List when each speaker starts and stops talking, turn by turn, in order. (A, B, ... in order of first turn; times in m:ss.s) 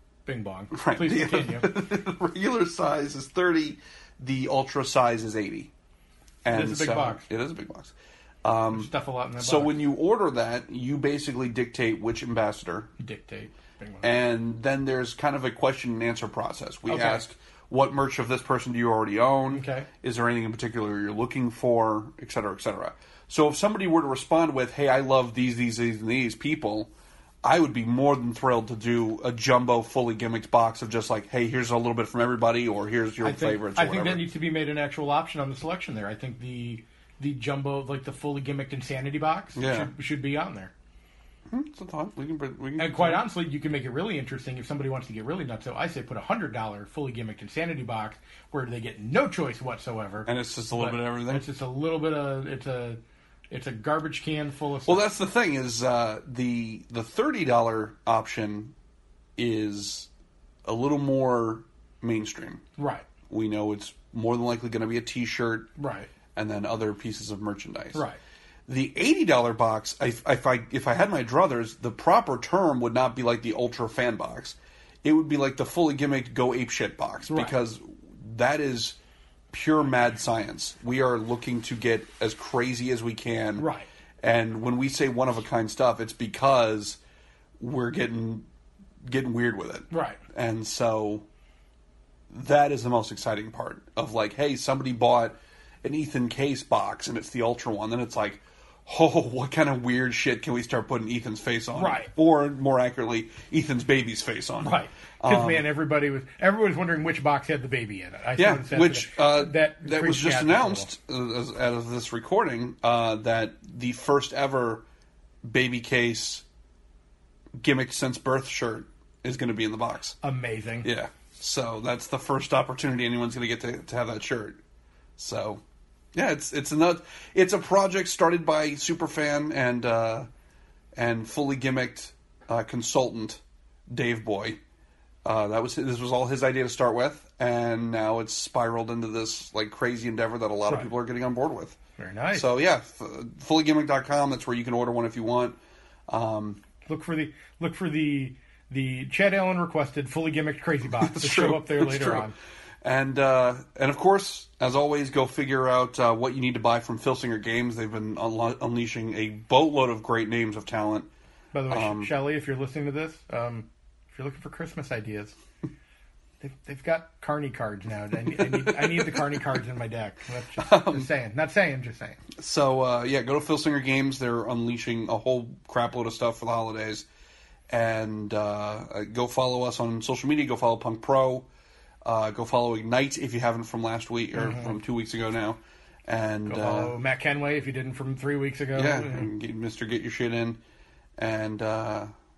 0:00.3-0:01.7 A
0:00.7-0:05.7 B
0:06.4-0:12.9 B
0:06.5-0:07.3 A
0:08.7-0:09.8 A
0:13.0-0:14.1 A
0:14.0-0:26.9 B
0:16.9-0:17.2 A
0:19.5-0:19.9 A
0:27.4-0:34.3 B
0:33.2-0:40.7 A
0:39.6-0:39.9 B
0:41.5-0:43.3 B
0:42.8-0:55.0 A
0:50.3-0:51.4 B
0:54.9-0:58.7 B
0:59.4-1:00.1 B
1:00.6-1:02.6 B
1:02.8-1:03.0 A
1:03.3-1:05.7 B
1:05.8-1:06.1 A
1:06.3-1:08.0 B
1:08.7-1:19.0 B
1:17.3-1:17.6 A
1:19.5-1:23.7 B
1:23.6-1:23.9 A
1:24.2-1:27.0 B
1:27.6-1:28.4 B
1:29.0-1:31.2 B
1:29.9-1:30.2 A
1:32.3-1:45.7 B
1:41.7-1:42.1 A
1:44.6-1:50.9 A
1:48.4-1:54.8 B
1:55.4-1:56.4 B
1:57.6-2:00.2 B
2:00.2-2:00.9 A
2:00.8-2:04.6 B
2:05.2-2:05.6 B
2:06.1-2:10.3 B
2:11.0-2:14.6 B
2:15.2-2:21.8 B
2:22.0-2:22.5 A
2:22.3-2:25.6 B
2:26.1-2:26.6 B
2:26.9-2:32.3 A
2:31.0-2:32.3 B
2:32.8-2:41.1 B
2:41.5-2:45.4 A
2:41.7-2:42.1 B
2:46.4-2:52.2 A
2:50.6-2:51.1 B
2:52.4-2:57.0 B
2:57.7-3:01.5 B
3:02.0-3:06.9 B
3:04.3-3:04.8 A
3:06.4-3:09.3 A
3:08.7-3:10.6 B
3:11.2-3:12.1 B